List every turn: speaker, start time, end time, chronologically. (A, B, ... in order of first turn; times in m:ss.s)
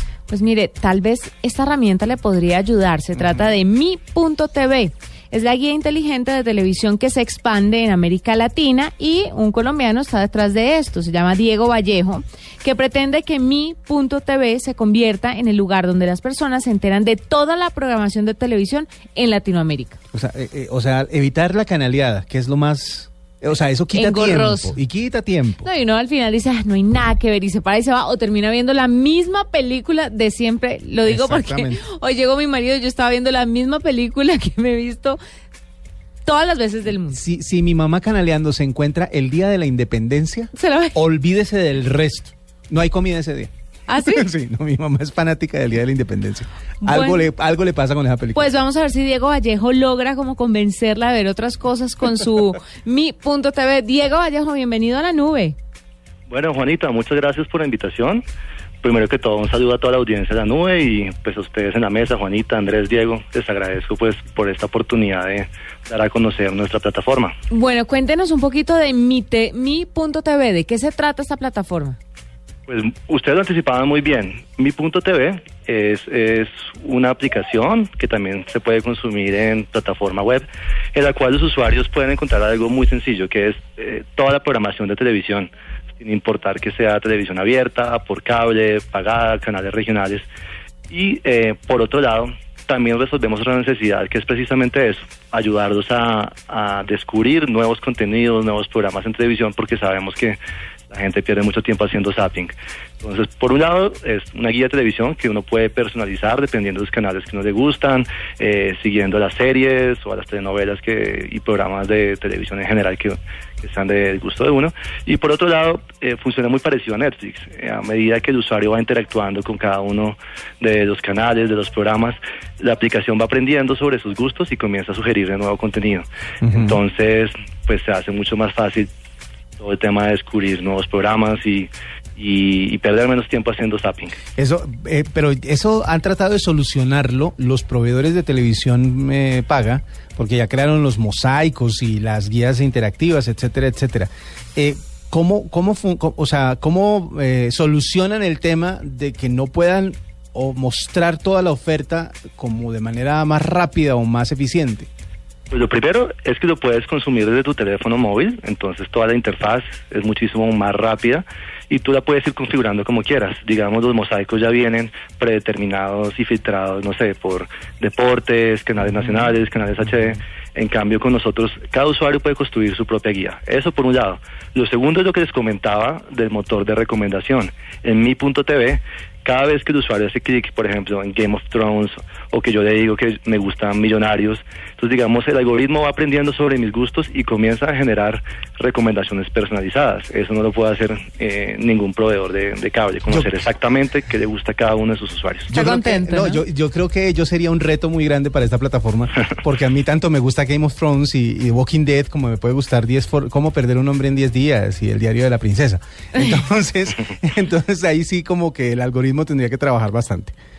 0:00.3-0:20.0 A
0:03.2-0:03.5 B
0:20.1-0:25.7 B
0:23.9-0:24.8 A
0:25.6-0:35.2 A
0:31.0-0:31.8 B
0:36.2-0:37.2 A
0:37.1-0:48.6 B
0:40.6-0:41.0 A
0:43.9-0:44.3 A
0:46.8-0:47.3 A
0:48.4-0:55.6 A
0:56.3-0:58.2 C
0:58.8-1:07.4 C
1:07.5-1:12.0 A
1:12.7-1:30.3 C
1:30.9-1:40.4 C
1:40.9-2:08.9 C
2:06.4-2:06.8 B
2:09.6-2:14.2 C
2:14.4-2:34.9 B
2:35.5-3:15.5 C
3:13.1-3:13.4 B
3:15.5-3:30.4 B
3:15.5-3:16.4 A